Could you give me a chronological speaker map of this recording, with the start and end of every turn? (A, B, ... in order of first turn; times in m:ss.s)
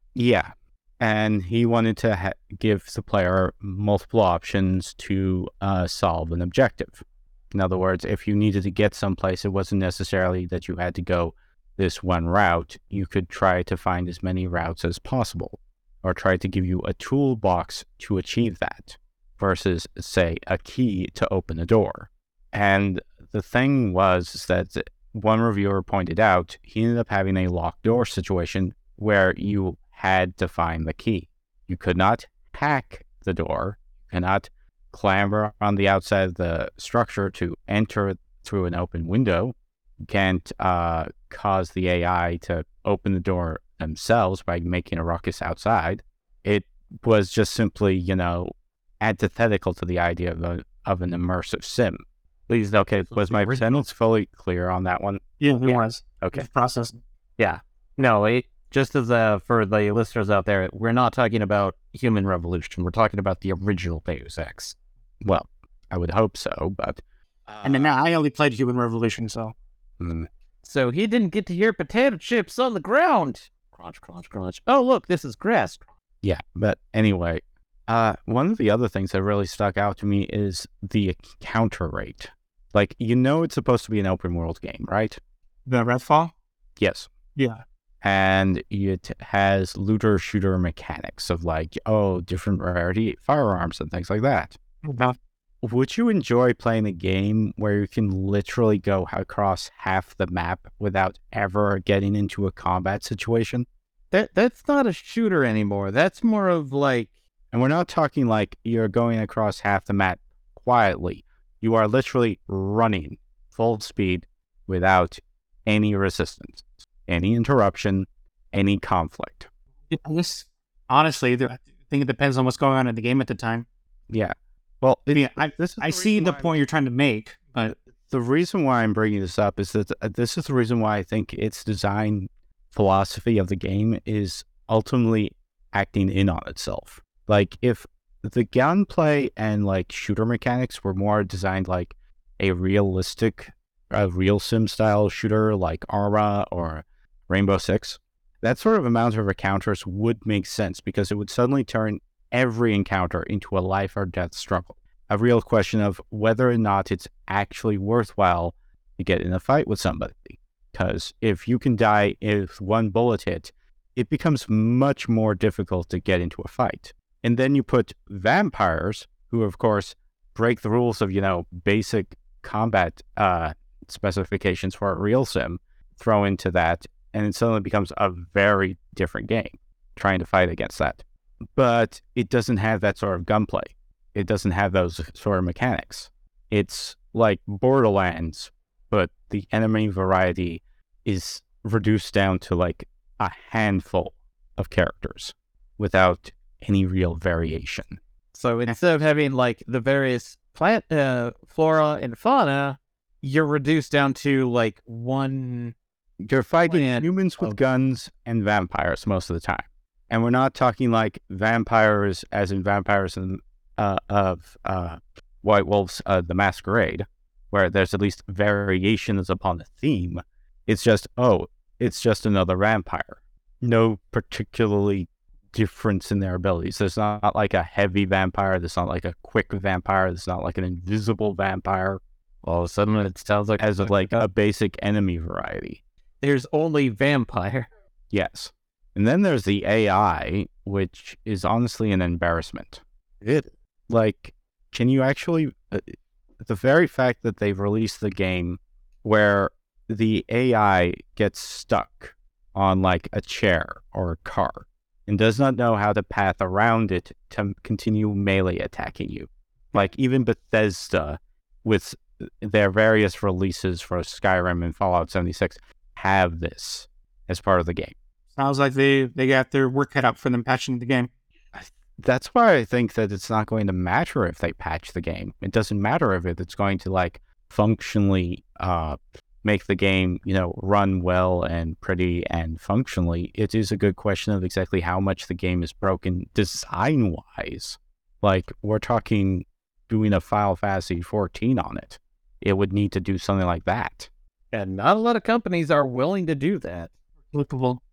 0:00.2-0:52.0 A
0:52.5-0:53.8 B
0:52.8-0:55.2 A
0:55.4-0:56.9 C
0:57.4-1:04.8 B
1:05.2-1:07.9 A
1:07.6-1:09.5 C
1:10.0-1:10.3 A
1:10.6-1:15.8 B
1:16.2-1:25.2 A
1:25.7-1:26.3 C
1:26.8-1:27.1 A
1:27.4-1:27.6 C
1:28.0-1:34.6 A
1:34.8-1:35.2 C
1:35.6-1:43.7 A
1:44.1-1:47.1 B
1:47.5-1:59.5 A
1:59.9-2:03.7 C
2:04.1-2:06.5 A
2:05.1-2:07.8 C
2:08.1-3:01.0 A
3:01.6-3:18.0 A
3:18.3-3:25.8 B
3:26.2-3:52.0 A
3:26.7-3:27.6 B
3:52.4-3:54.2 B
3:53.6-3:55.8 A
3:56.2-3:57.7 B
3:58.1-4:02.8 A
4:03.2-4:03.5 B
4:03.9-4:28.0 A
4:28.4-4:31.1 C
4:31.5-4:54.1 A
4:54.5-4:56.9 B
4:57.3-4:57.8 C